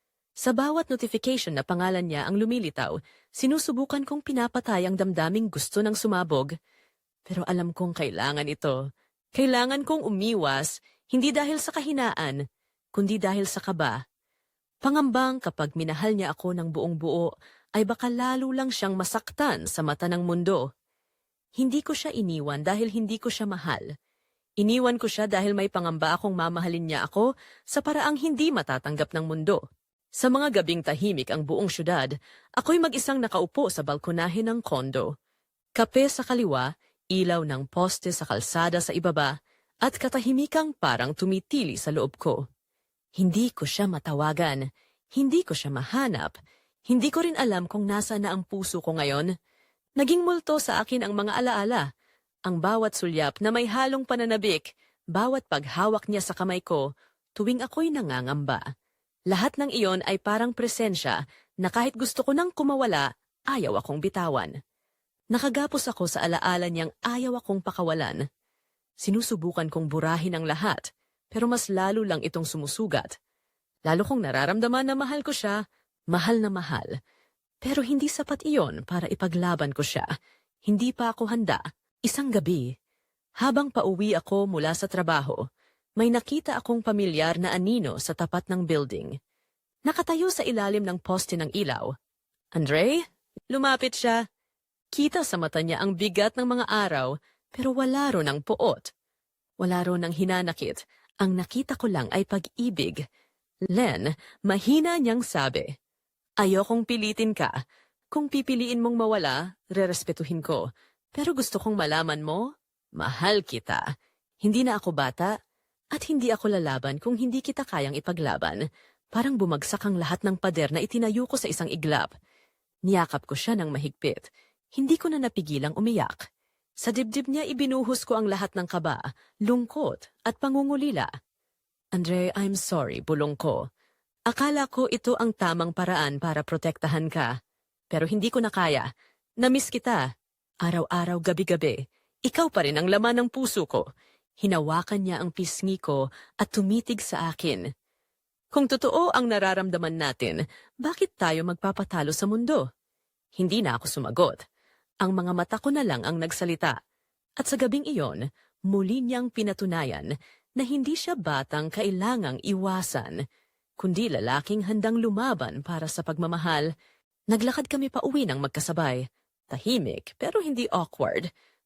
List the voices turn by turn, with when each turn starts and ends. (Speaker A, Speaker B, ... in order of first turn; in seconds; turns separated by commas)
Speaker A: 0.4-6.5, Speaker A: 7.3-8.8, Speaker A: 9.3-12.4, Speaker A: 12.9-14.0, Speaker A: 14.8-20.6, Speaker A: 21.6-23.8, Speaker A: 24.6-29.6, Speaker A: 30.2-35.1, Speaker A: 35.8-39.3, Speaker A: 39.9-42.4, Speaker A: 43.2-44.6, Speaker A: 45.1-46.3, Speaker A: 46.9-49.3, Speaker A: 50.0-51.9, Speaker A: 52.5-56.9, Speaker A: 57.4-58.6, Speaker A: 59.3-64.5, Speaker A: 65.3-68.2, Speaker A: 69.0-73.1, Speaker A: 73.9-75.6, Speaker A: 76.1-76.9, Speaker A: 77.6-80.1, Speaker A: 80.7-82.7, Speaker A: 83.4-85.4, Speaker A: 86.0-89.1, Speaker A: 89.9-91.9, Speaker A: 92.5-94.2, Speaker A: 94.9-98.9, Speaker A: 99.6-103.0, Speaker A: 103.7-105.7, Speaker A: 106.4-107.5, Speaker A: 108.1-113.8, Speaker A: 114.4-115.3, Speaker A: 115.9-118.6, Speaker A: 119.1-122.1, Speaker A: 122.9-124.2, Speaker A: 124.8-126.2, Speaker A: 126.8-131.1, Speaker A: 131.9-133.6, Speaker A: 134.3-137.3, Speaker A: 137.9-138.9, Speaker A: 139.4-140.0, Speaker A: 140.6-143.9, Speaker A: 144.4-147.7, Speaker A: 148.5-152.6, Speaker A: 153.4-154.4, Speaker A: 155.0-156.8, Speaker A: 157.4-163.1, Speaker A: 163.8-166.7, Speaker A: 167.3-171.3